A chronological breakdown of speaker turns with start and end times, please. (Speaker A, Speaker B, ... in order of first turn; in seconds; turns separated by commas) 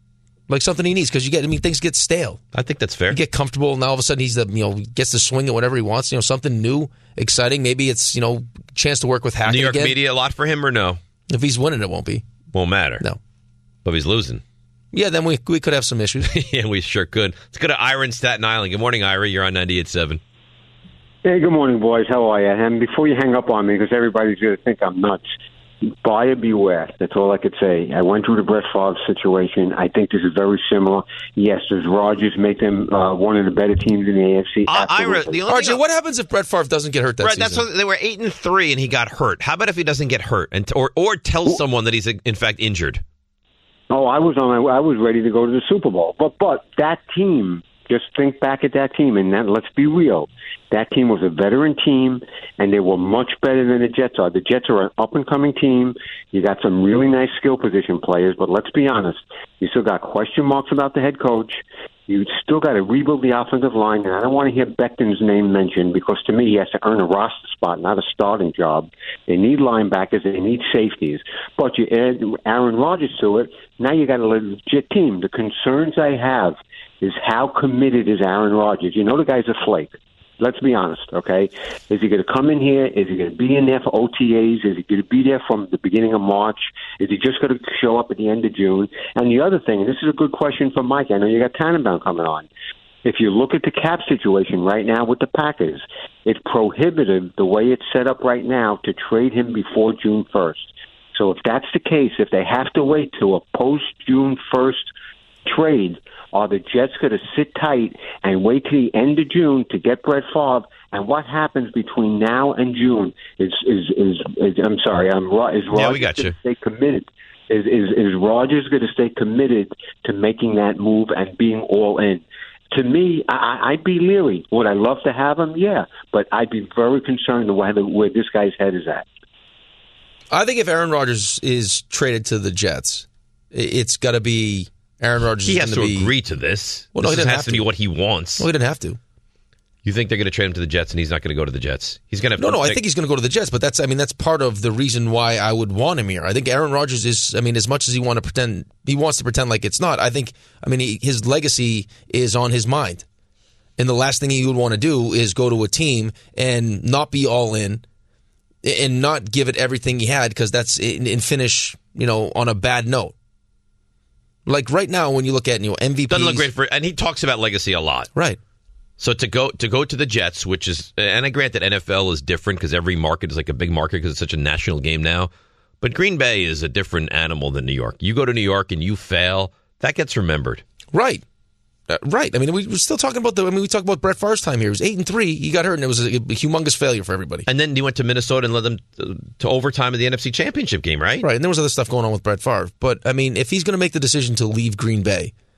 Speaker A: 0.5-2.4, Speaker B: 2.5-3.2, Speaker A: 3.1-10.0, Speaker B: 9.5-11.0, Speaker A: 11.3-12.2, Speaker B: 12.5-13.0, Speaker B: 13.8-14.4, Speaker A: 14.9-16.3, Speaker B: 16.2-20.2, Speaker C: 21.2-25.2, Speaker C: 26.0-35.4, Speaker B: 34.7-35.8, Speaker A: 35.5-37.7, Speaker B: 37.2-43.0, Speaker C: 43.9-92.5, Speaker C: 93.0-104.9, Speaker C: 105.5-129.1, Speaker B: 115.7-116.4, Speaker A: 130.3-136.1, Speaker B: 135.4-138.5, Speaker A: 136.9-137.7, Speaker A: 138.4-139.0, Speaker B: 139.8-142.8, Speaker A: 142.4-153.1, Speaker A: 153.8-157.8, Speaker A: 158.6-163.1, Speaker A: 164.5-166.5, Speaker B: 166.1-168.1, Speaker B: 169.0-180.6, Speaker A: 180.9-181.2, Speaker A: 181.9-187.5, Speaker B: 187.5-191.2, Speaker A: 191.2-195.3